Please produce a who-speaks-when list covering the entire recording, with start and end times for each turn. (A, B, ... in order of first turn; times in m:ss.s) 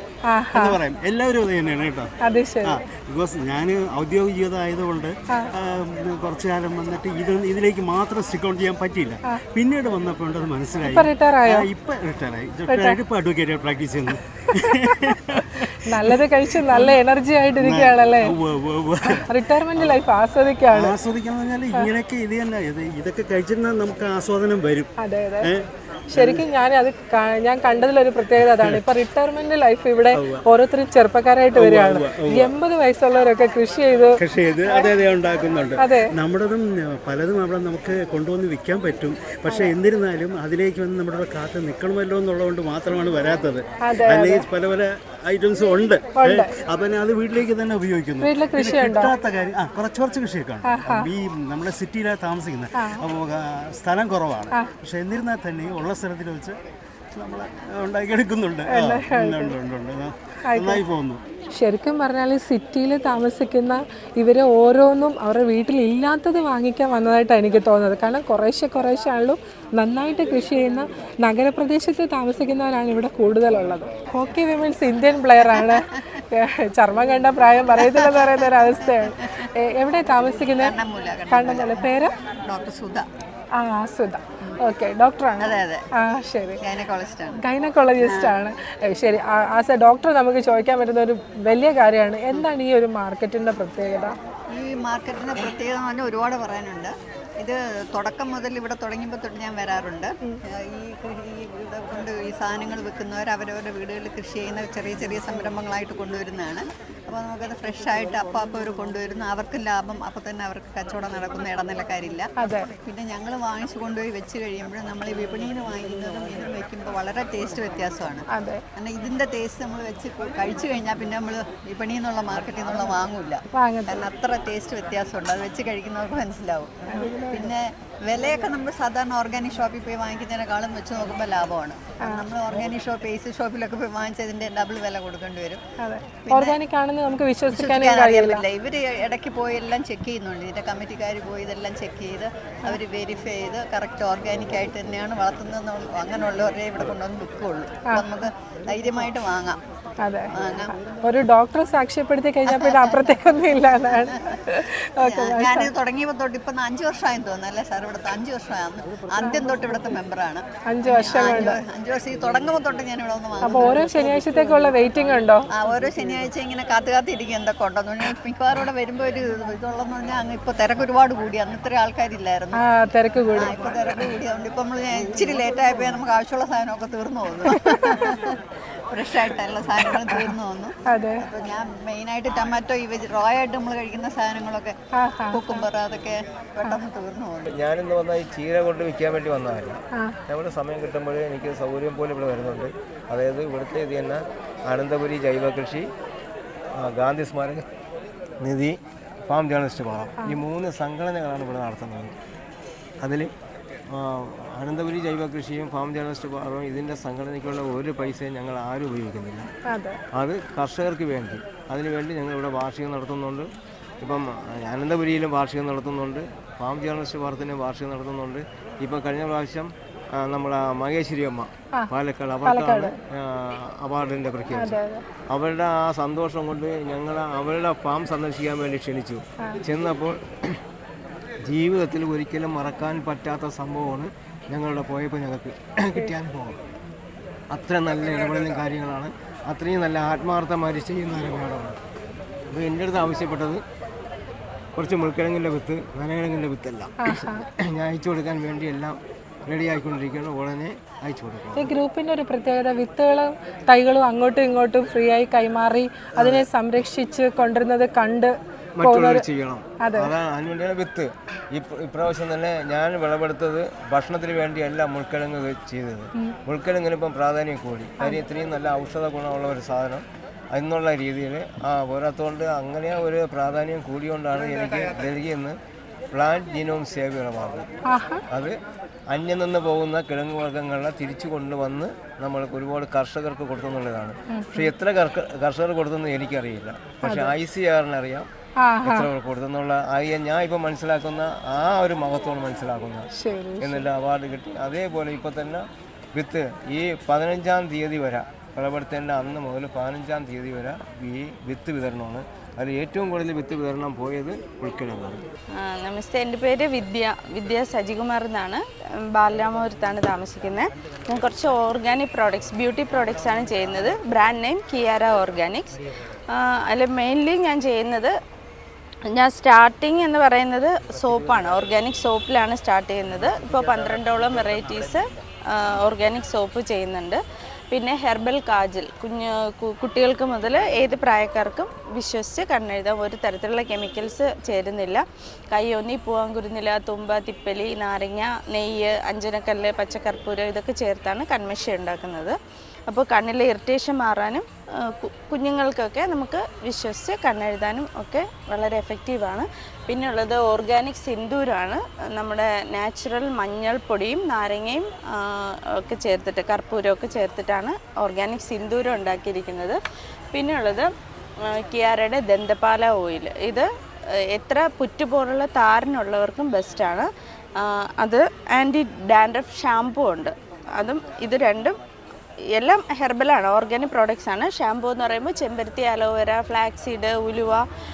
0:00.3-0:00.8 A
0:00.5-0:02.1 B
0:02.2-0:02.8 A
0:02.6-0:17.0 B
0:10.9-0:11.6 A
0:12.7-0:13.0 A
0:14.6-0:15.0 A
0:15.8-0:18.3 A
0:17.6-0:20.0 B
0:19.1-0:20.9 A
0:20.7-0:24.9 B
0:25.0-0:25.5 A
0:25.4-0:26.4 B
0:26.1-0:34.2 A
0:28.4-0:28.8 B
0:30.1-0:30.4 B
0:31.6-0:32.5 B
0:34.2-0:56.6 B
0:35.8-0:36.1 A
0:43.8-0:44.4 A
0:46.2-0:46.5 A
0:48.2-0:49.1 A
0:50.7-0:51.1 A
0:57.2-1:01.2 B
0:58.7-0:59.5 A
1:00.5-1:00.8 A
1:01.6-1:20.7 A
1:15.4-1:15.8 C
1:17.8-1:19.4 C
1:20.5-1:21.9 C
1:21.3-1:22.1 A
1:22.5-1:23.0 C
1:23.6-1:26.6 A
1:25.4-1:25.8 C
1:26.6-1:27.4 C
1:27.4-1:34.1 A
1:28.0-1:28.3 C
1:34.5-1:52.3 C
1:52.4-1:52.7 A
1:52.8-1:58.2 C
1:58.3-1:58.6 A
1:58.8-2:15.6 C
2:03.5-2:04.0 A
2:06.9-2:07.5 A
2:15.8-2:18.4 A
2:16.3-2:16.6 C
2:17.5-2:29.6 C
2:30.0-2:30.3 A
2:30.3-2:30.7 C
2:31.0-2:35.7 A
2:32.5-2:33.1 C
2:33.9-2:34.1 C
2:35.0-2:44.6 C
2:39.2-2:39.6 A
2:40.7-2:41.6 A
2:43.4-2:45.4 A
2:45.5-2:52.6 C
2:52.6-2:53.7 A
2:53.3-2:58.4 C
2:57.5-2:58.1 A
2:58.9-3:04.7 C
2:59.9-3:00.2 A
3:00.9-3:01.2 A
3:05.0-3:05.6 A
3:05.3-3:07.5 C
3:07.5-3:15.9 D
3:16.8-3:17.6 D
3:18.4-3:22.1 D
3:23.0-3:23.3 D
3:23.9-3:29.5 D
3:29.7-3:30.0 A
3:30.1-3:33.5 D
3:34.0-3:44.8 D
3:42.4-3:43.0 A
3:44.5-3:45.0 A
3:45.3-3:50.6 D
3:51.5-3:56.6 D
3:57.5-4:01.8 D
4:02.5-4:03.6 D
4:04.8-4:11.7 D
4:07.0-4:07.4 A
4:11.6-4:19.2 A
4:16.2-4:16.4 D
4:18.8-4:35.6 D
4:19.8-4:20.1 A
4:36.1-4:37.7 D
4:37.9-4:38.2 A
4:38.3-4:38.6 D
4:39.1-4:48.3 D
4:44.3-4:44.7 A
4:47.0-4:47.3 A
4:48.6-4:49.1 A
4:48.8-4:53.1 D
4:53.2-4:53.8 A
4:53.6-4:55.6 D
4:56.1-5:05.2 D
5:05.6-5:08.6 E
5:09.1-5:15.8 E
5:16.3-5:18.1 E
5:19.1-5:42.4 E
5:42.9-5:59.8 E
6:00.3-6:00.9 E
6:01.4-6:03.7 E
6:04.3-6:07.1 E
6:07.6-6:11.8 E
6:12.5-6:17.6 E